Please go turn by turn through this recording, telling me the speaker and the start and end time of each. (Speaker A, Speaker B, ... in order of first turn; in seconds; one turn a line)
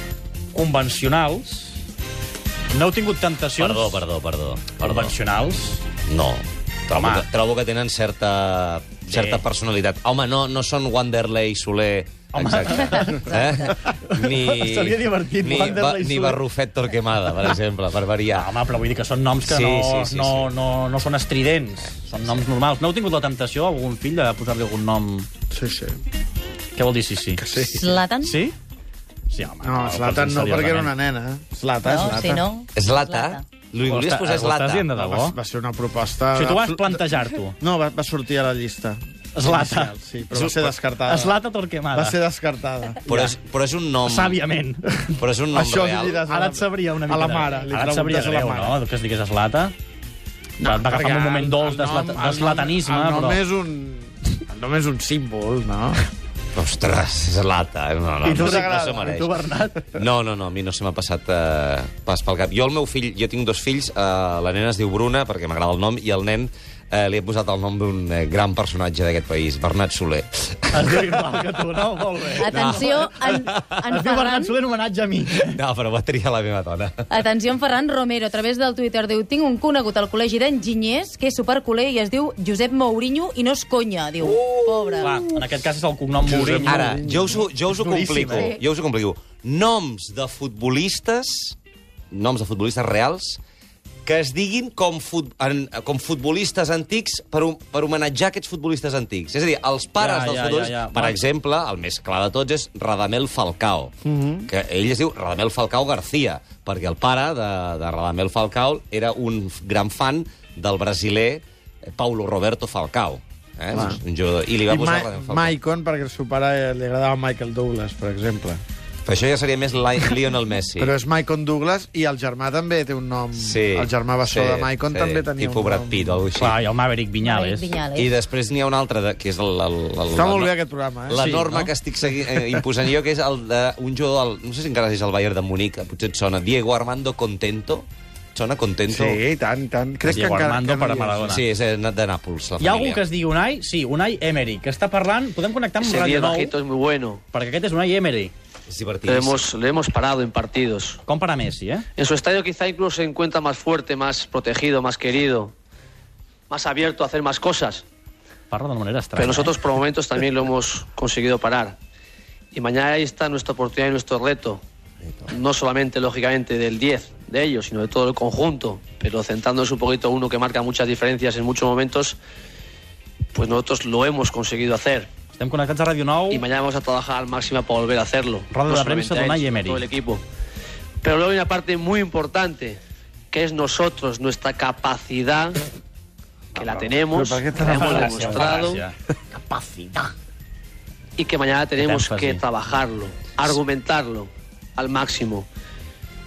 Speaker A: 0.5-1.8
Speaker A: 2.7-4.0
Speaker B: 3.6-5.1
Speaker A: 4.8-5.8
Speaker B: 6.1-18.5
Speaker A: 6.9-7.2
Speaker A: 9.1-9.4
Speaker A: 12.3-16.4
Speaker A: 18.3-25.3
Speaker B: 19.4-20.5
Speaker C: 25.5-26.0
Speaker A: 26.8-28.6
Speaker C: 27.4-27.9
Speaker D: 27.7-28.4
Speaker A: 29.3-30.9
Speaker C: 29.6-32.4
Speaker D: 31.8-33.4
Speaker B: 32.7-34.9
Speaker A: 33.8-35.4
Speaker C: 34.9-37.0
Speaker A: 36.3-37.5
Speaker C: 37.6-41.4
Speaker A: 39.3-42.2
Speaker C: 41.9-43.0
Speaker A: 43.1-43.4
Speaker B: 43.1-44.4
Speaker A: 44.0-45.2
Speaker B: 45.2-46.2
Speaker C: 45.5-48.8
Speaker A: 46.2-49.7
Speaker A: 50.6-53.4
Speaker C: 50.6-56.0
Speaker B: 56.5-59.3
Speaker A: 58.2-59.8
Speaker C: 58.4-59.1
Speaker B: 60.0-71.0
Speaker A: 70.7-73.3
Speaker D: 72.4-74.6
Speaker B: 72.5-74.0
Speaker A: 73.9-75.6
Speaker B: 75.4-77.2
Speaker D: 77.1-85.2
Speaker B: 84.2-85.1
Speaker A: 85.0-87.0
Speaker C: 86.2-87.4
Speaker B: 86.6-91.5
Speaker A: 87.7-88.5
Speaker B: 92.1-93.4
Speaker B: 94.0-103.9
Speaker A: 100.0-101.2
Speaker C: 104.0-104.5
Speaker B: 104.5-115.5
Speaker C: 113.7-114.0
Speaker C: 114.7-118.6
Speaker B: 119.0-120.9
Speaker C: 120.8-126.2
Speaker B: 123.3-126.6
Speaker A: 126.4-127.7
Speaker D: 127.2-128.1
Speaker B: 127.9-130.5
Speaker C: 130.1-131.3
Speaker B: 131.1-139.2
Speaker A: 131.1-131.7
Speaker C: 132.3-132.6
Speaker C: 138.9-141.4
Speaker A: 140.1-141.4
Speaker B: 141.3-143.0
Speaker A: 142.6-146.5
Speaker E: 145.8-147.2
Speaker A: 147.3-148.3
Speaker B: 148.7-149.5
Speaker E: 149.1-151.0
Speaker A: 151.0-151.8
Speaker E: 152.0-155.5
Speaker E: 156.5-157.8
Speaker A: 158.5-159.5
Speaker E: 159.2-161.8
Speaker E: 162.5-164.6
Speaker E: 165.3-172.2
Speaker E: 173.3-175.1
Speaker A: 175.3-176.4
Speaker E: 176.3-180.2
Speaker A: 178.5-179.8
Speaker E: 181.0-182.8
Speaker E: 183.3-185.6
Speaker C: 186.5-188.7
Speaker E: 186.5-188.8
Speaker A: 187.7-188.9
Speaker C: 189.3-190.1
Speaker E: 191.2-195.5
Speaker A: 191.8-192.4